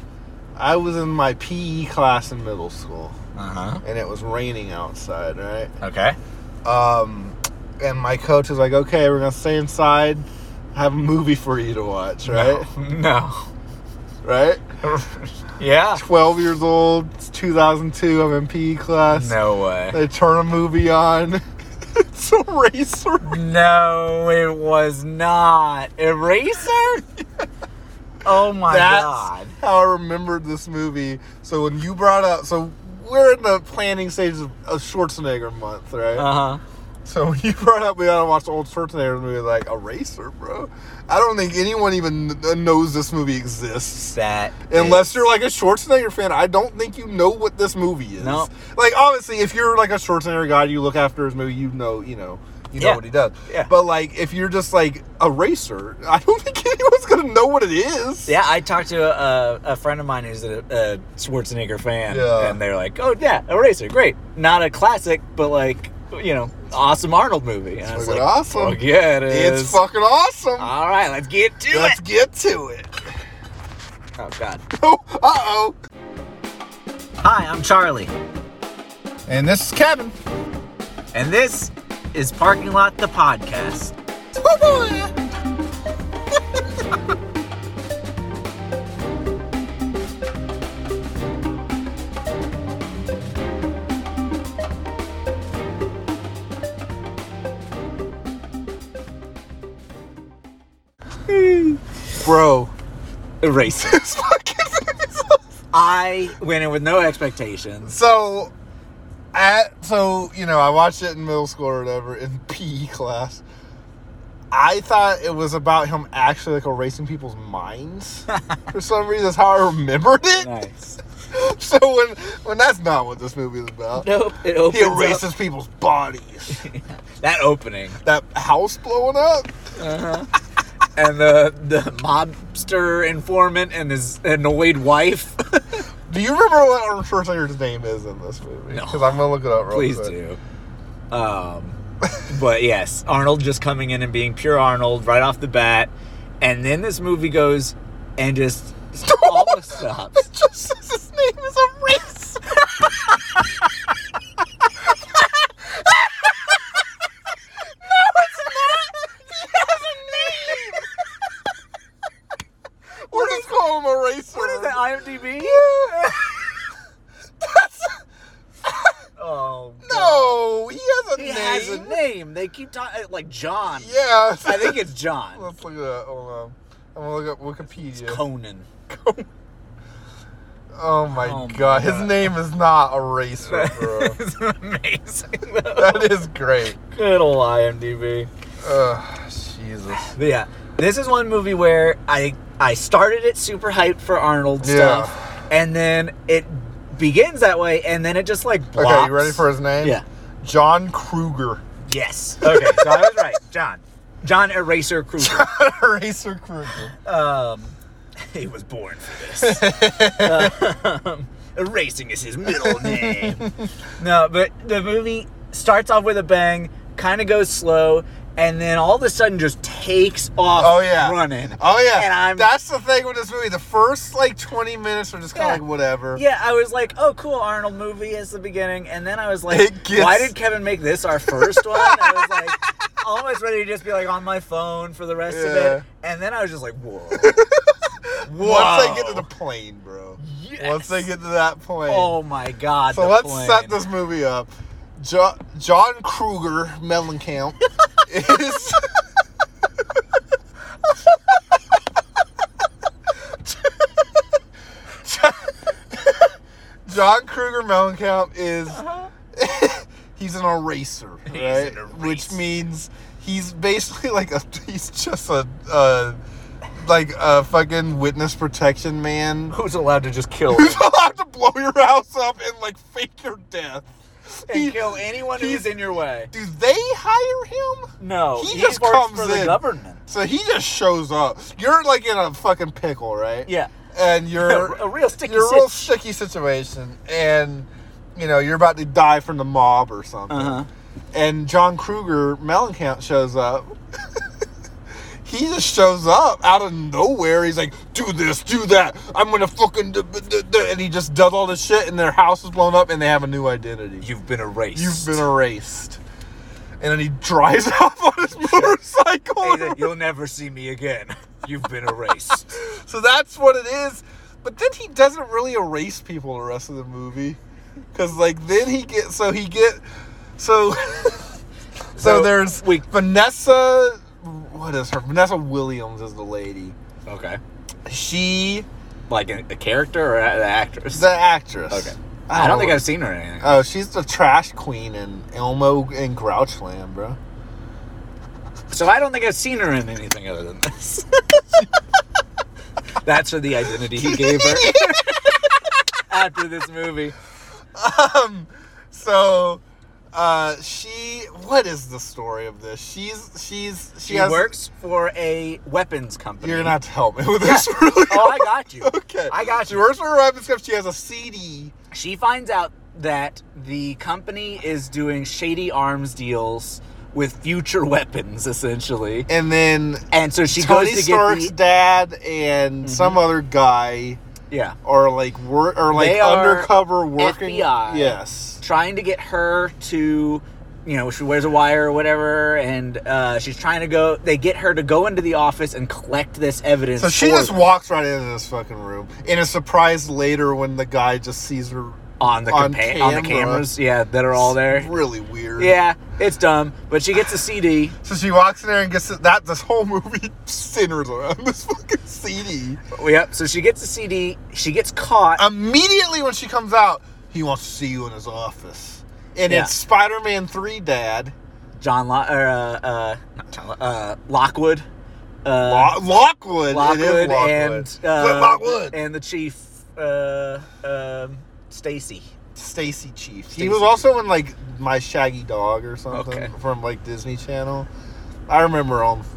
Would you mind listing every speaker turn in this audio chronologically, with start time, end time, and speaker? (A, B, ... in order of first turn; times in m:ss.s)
0:00.6-0:03.2 A
0:03.4-0:03.8 B
0:03.8-0:05.7 A
0:05.8-0:06.2 B
0:06.6-0:12.7 A
0:12.2-0:13.5 B
0:14.2-0:14.6 A
0:14.8-0:16.0 B
0:16.0-0:19.4 A
0:19.1-0:20.0 B
0:19.9-0:21.4 A
0:22.0-0:23.4 A
0:23.2-0:27.0 B
0:28.2-0:29.6 B
0:28.7-0:36.3 A
0:36.2-0:36.6 B
0:37.0-0:44.1 A
0:44.0-0:45.1 B
0:44.7-0:58.3 A
0:48.2-0:48.5 B
0:52.8-0:53.7 B
0:58.3-1:09.8 B
1:02.1-1:02.6 A
1:07.9-1:10.7 A
1:10.6-1:12.0 B
1:11.7-1:12.9 A
1:14.2-1:14.6 B
1:14.7-1:15.8 A
1:17.2-1:18.1 B
1:19.3-1:20.2 A
1:21.1-1:24.0 B
1:24.4-1:25.1 A
1:41.3-1:41.8 B
1:42.2-1:42.7 A
1:43.4-1:44.0 B
1:43.8-1:45.4 A
1:45.7-1:47.9 B
1:47.8-1:48.5 A
1:49.3-1:53.4 A
1:54.5-2:00.5 A
1:58.3-1:58.6 B
2:00.4-2:01.0 B
2:01.3-2:04.1 A
2:04.0-2:05.2 B
2:04.6-2:06.7 A
2:06.5-2:08.0 B
2:08.0-2:09.5 A
2:09.8-2:10.3 B
2:11.0-2:15.8 B
2:16.1-2:20.1 A
2:18.7-2:20.4 B
2:21.1-2:30.3 B
2:29.0-2:32.4 A
2:37.8-2:41.0 A
2:39.8-2:40.8 B
2:43.1-2:46.5 A
2:43.1-2:43.5 B
2:44.3-2:46.2 B
2:47.4-2:48.0 A
2:49.2-2:50.4 B
2:49.8-2:52.0 A
2:51.2-2:55.4 B
2:53.8-2:58.2 A
2:57.8-2:59.2 B
3:00.8-3:04.2 A
3:01.1-3:02.3 B
3:03.5-3:06.2 B
3:05.8-3:06.8 A
3:06.9-3:08.3 B
3:08.6-3:10.1 A
3:10.1-3:20.0 B
3:14.6-3:15.1 A
3:18.8-3:21.6 A
3:21.9-3:25.5 B
3:22.4-3:23.2 A
3:25.2-3:27.0 A
3:26.9-3:29.6 B
3:29.4-3:30.6 A
3:30.2-3:33.4 B
3:32.5-3:33.7 A
3:34.0-3:42.5 B
3:40.6-3:46.2 A
3:45.3-3:45.6 B
3:46.1-3:57.4 B
3:49.5-3:50.4 A
3:51.2-3:52.5 A
3:55.3-3:55.8 A
3:57.1-4:02.2 A
3:58.2-3:59.3 B
4:00.2-4:01.1 B
4:01.9-4:03.8 B
4:02.9-4:09.0 A
4:15.0-4:15.6 A
4:16.9-4:26.2 A
4:18.7-4:19.1 B
4:21.3-4:22.4 B
4:26.8-4:29.6 A
4:29.5-4:30.8 B
4:30.5-4:53.7 A
4:34.5-4:36.3 B
4:38.0-4:40.0 B
4:44.4-4:45.9 B
4:50.3-4:50.7 B
4:55.2-5:04.1 A
5:04.0-5:05.2 B
5:04.8-5:06.0 A
5:06.8-5:09.9 A
5:08.5-5:08.8 B
5:09.4-5:12.5 B
5:12.3-5:17.4 A
5:17.9-5:19.8 A
5:20.4-5:21.3 A
5:22.0-5:22.9 B
5:22.0-5:26.8 A
5:27.1-5:27.4 B
5:27.9-5:28.7 A
5:29.1-5:31.1 B
5:30.9-5:32.9 A
5:31.7-5:33.6 B
5:33.4-5:37.2 A
5:38.7-5:41.6 B
5:43.0-5:45.4 B
5:44.0-5:45.5 A
5:46.1-5:47.2 B
5:47.8-5:49.6 A
5:50.1-5:54.5 A
5:54.0-5:56.8 B
5:56.4-6:01.7 A
5:57.4-5:59.8 B
6:01.9-6:09.3 B
6:09.3-6:14.2 A
6:10.1-6:11.5 B
6:12.8-6:13.2 B
6:14.5-6:14.8 B
6:14.8-6:18.6 A
6:15.9-6:27.7 B
6:27.0-6:33.7 A
6:32.2-6:34.9 B
6:34.3-6:35.8 A
6:35.6-6:38.0 B
6:38.0-6:42.8 A
6:42.9-6:45.4 B
6:45.4-6:51.3 A
6:49.5-6:49.7 B
6:51.8-6:54.9 B
6:55.4-6:56.0 B
6:55.6-6:59.0 A
6:56.7-7:02.3 B
7:02.6-7:07.9 A
7:03.5-7:04.0 B
7:06.1-7:06.5 B
7:08.5-7:09.3 A